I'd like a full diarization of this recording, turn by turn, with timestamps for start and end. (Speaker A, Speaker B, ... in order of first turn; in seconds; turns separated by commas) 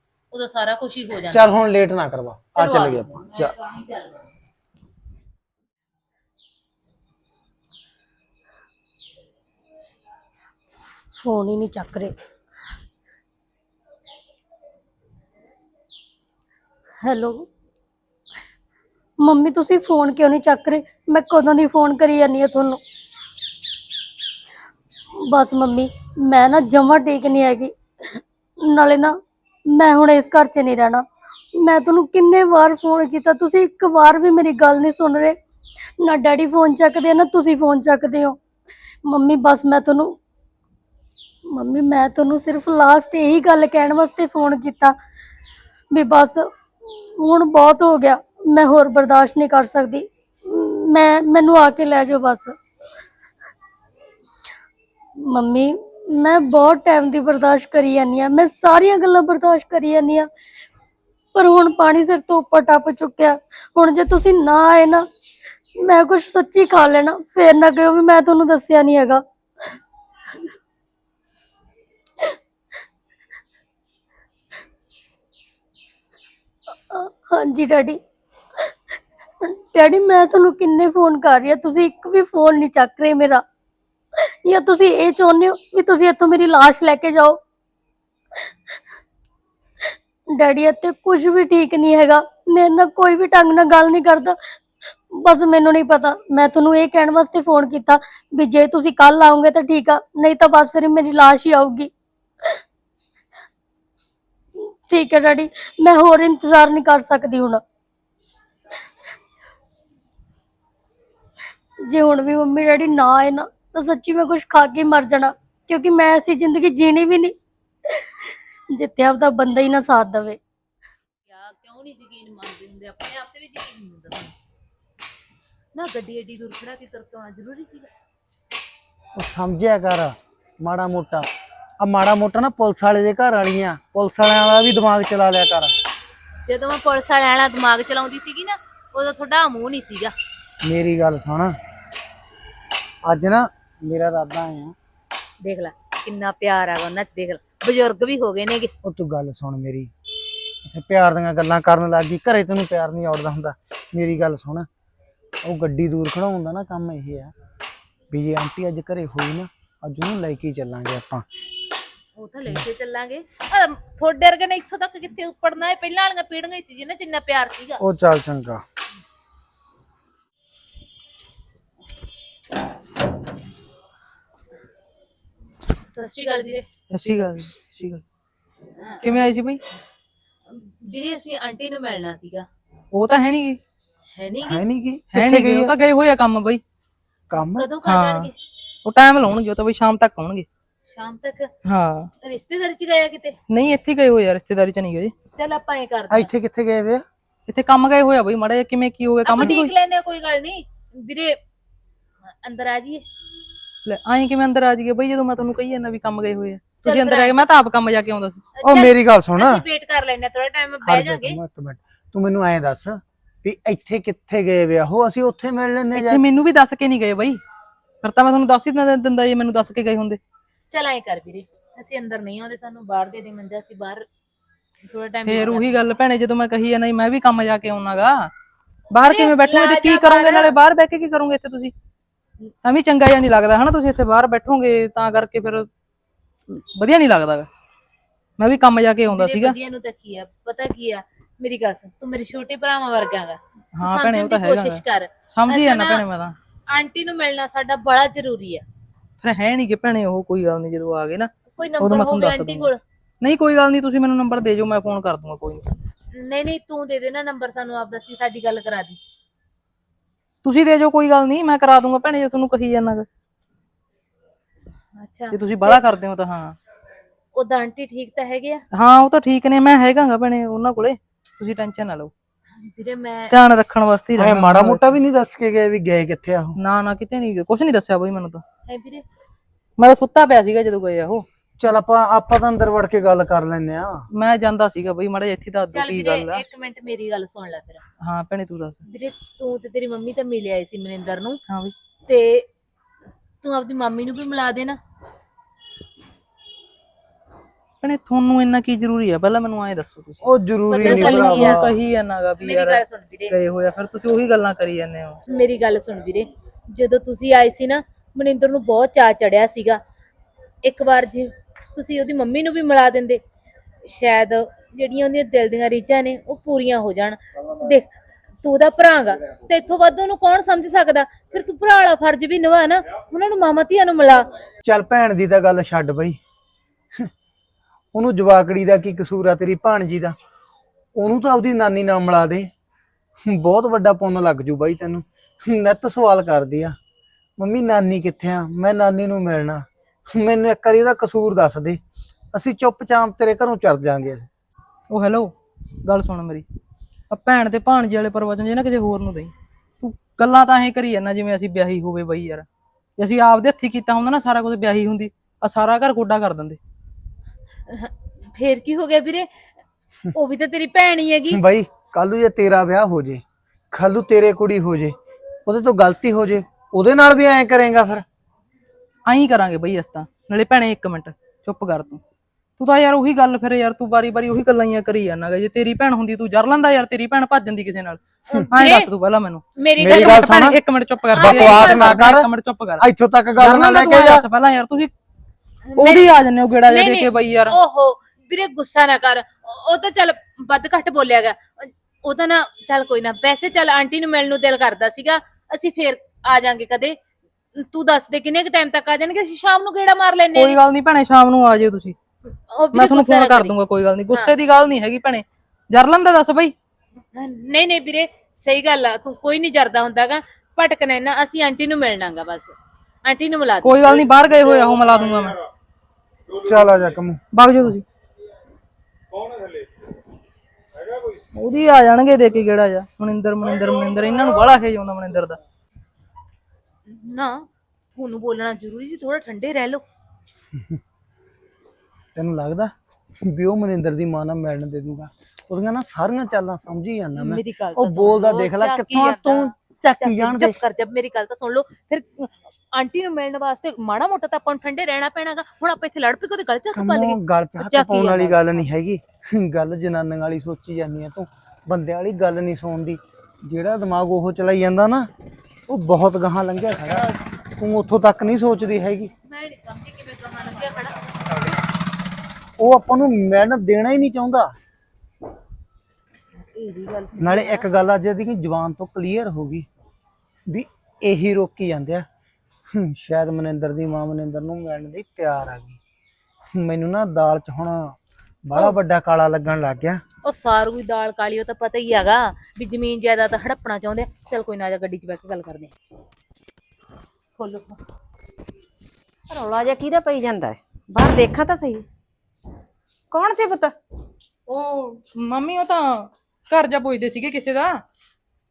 Speaker A: 0.3-1.5, Speaker B: 1.3-3.5, Speaker A: 2.5-4.2, Speaker C: 11.1-12.1, Speaker C: 17.0-17.5, Speaker C: 19.2-22.8, Speaker C: 25.2-29.1, Speaker C: 29.7-35.4, Speaker C: 36.0-38.4, Speaker C: 39.0-40.1, Speaker C: 41.5-44.9, Speaker C: 45.9-46.5, Speaker C: 47.2-52.5, Speaker C: 55.2-60.3, Speaker C: 61.3-65.1, Speaker C: 65.8-69.2, Speaker C: 76.9-78.0, Speaker C: 79.4-83.4, Speaker C: 84.4-87.4, Speaker C: 90.4-94.4, Speaker C: 95.1-101.9, Speaker C: 104.9-107.6, Speaker C: 111.9-117.3, Speaker C: 117.9-118.2, Speaker C: 118.7-120.4, Speaker A: 121.3-124.3, Speaker A: 125.7-127.9, Speaker B: 129.2-131.3, Speaker B: 131.8-135.7, Speaker A: 136.4-140.1, Speaker B: 140.6-141.5, Speaker B: 143.1-144.7, Speaker A: 145.4-148.7, Speaker B: 148.8-149.9, Speaker B: 150.6-154.7, Speaker B: 155.4-157.3, Speaker B: 158.1-161.3, Speaker A: 162.2-167.8, Speaker B: 167.8-168.6, Speaker A: 175.9-176.7, Speaker D: 176.9-178.0, Speaker A: 178.8-179.2, Speaker D: 179.0-179.6, Speaker A: 180.5-182.4, Speaker D: 182.9-183.6, Speaker A: 184.2-184.6, Speaker B: 184.5-185.7, Speaker D: 185.1-186.6, Speaker B: 187.3-187.7, Speaker A: 187.6-188.3, Speaker D: 187.8-188.3, Speaker D: 188.8-190.4, Speaker A: 190.9-191.5, Speaker D: 191.7-192.1, Speaker A: 192.2-193.3, Speaker D: 193.5-195.1, Speaker A: 195.3-196.3, Speaker B: 196.1-197.0, Speaker D: 197.5-199.7, Speaker A: 199.2-201.4, Speaker A: 202.4-203.0, Speaker D: 203.8-208.4, Speaker A: 206.8-207.4, Speaker A: 208.6-211.4, Speaker B: 208.6-209.6, Speaker B: 210.8-216.2, Speaker D: 215.9-217.4, Speaker D: 218.0-220.2, Speaker A: 220.7-224.0, Speaker A: 224.8-225.8, Speaker D: 225.3-228.3, Speaker D: 228.9-231.7, Speaker A: 229.0-230.6, Speaker D: 232.6-235.7, Speaker D: 236.5-237.5, Speaker D: 238.4-239.6, Speaker A: 239.1-246.0, Speaker D: 243.8-246.3, Speaker A: 246.7-248.6, Speaker D: 249.2-252.7, Speaker A: 251.6-252.8, Speaker D: 253.2-255.7, Speaker A: 256.1-259.0, Speaker D: 260.4-263.1, Speaker A: 265.0-265.8, Speaker D: 265.3-266.6, Speaker A: 267.3-268.6, Speaker D: 268.7-272.1, Speaker A: 272.6-273.3, Speaker D: 273.3-274.9, Speaker B: 274.1-276.6, Speaker D: 276.6-278.4, Speaker A: 278.7-279.0, Speaker D: 279.8-281.2, Speaker B: 281.6-284.1, Speaker D: 284.1-286.4, Speaker A: 285.7-287.8, Speaker D: 288.0-288.8, Speaker A: 288.8-291.4, Speaker A: 292.1-292.5, Speaker A: 293.4-294.8, Speaker D: 297.8-300.3, Speaker B: 300.2-301.8, Speaker A: 300.7-301.6, Speaker D: 300.8-305.2, Speaker A: 302.4-303.3, Speaker A: 305.3-309.8, Speaker A: 310.6-313.2, Speaker A: 313.8-317.8, Speaker A: 318.4-324.2, Speaker B: 324.6-326.2, Speaker B: 327.9-330.1, Speaker B: 330.9-332.5, Speaker B: 333.2-336.8, Speaker B: 337.4-341.8, Speaker B: 342.3-344.3, Speaker D: 344.9-345.3, Speaker D: 345.8-346.4, Speaker D: 347.1-352.4, Speaker D: 353.0-356.6, Speaker A: 357.7-359.3, Speaker A: 360.1-361.4, Speaker B: 361.3-364.9, Speaker B: 365.4-368.0, Speaker D: 369.1-372.0, Speaker D: 372.6-382.8, Speaker A: 378.6-378.9, Speaker A: 379.6-380.5, Speaker B: 379.8-380.6, Speaker A: 381.1-382.0, Speaker B: 381.2-384.2, Speaker D: 383.4-384.9, Speaker A: 385.7-397.0, Speaker D: 385.8-387.6, Speaker A: 397.6-400.6, Speaker D: 400.3-401.9, Speaker A: 402.5-403.5, Speaker D: 402.7-406.5, Speaker A: 407.1-412.5, Speaker A: 413.0-414.0, Speaker D: 413.6-415.4, Speaker B: 416.3-417.2, Speaker D: 417.3-417.8, Speaker D: 421.3-425.4, Speaker A: 426.9-429.8, Speaker B: 430.5-430.8, Speaker B: 432.1-440.6, Speaker A: 437.1-448.7, Speaker B: 446.7-455.1, Speaker B: 455.7-459.1, Speaker A: 459.2-461.4, Speaker B: 462.6-464.5, Speaker A: 466.4-467.7, Speaker B: 467.1-469.7, Speaker B: 470.5-472.0, Speaker B: 472.7-475.8, Speaker B: 476.5-480.0, Speaker A: 480.2-485.7, Speaker A: 487.4-487.8, Speaker E: 489.3-491.9, Speaker E: 493.1-493.7, Speaker D: 494.5-497.8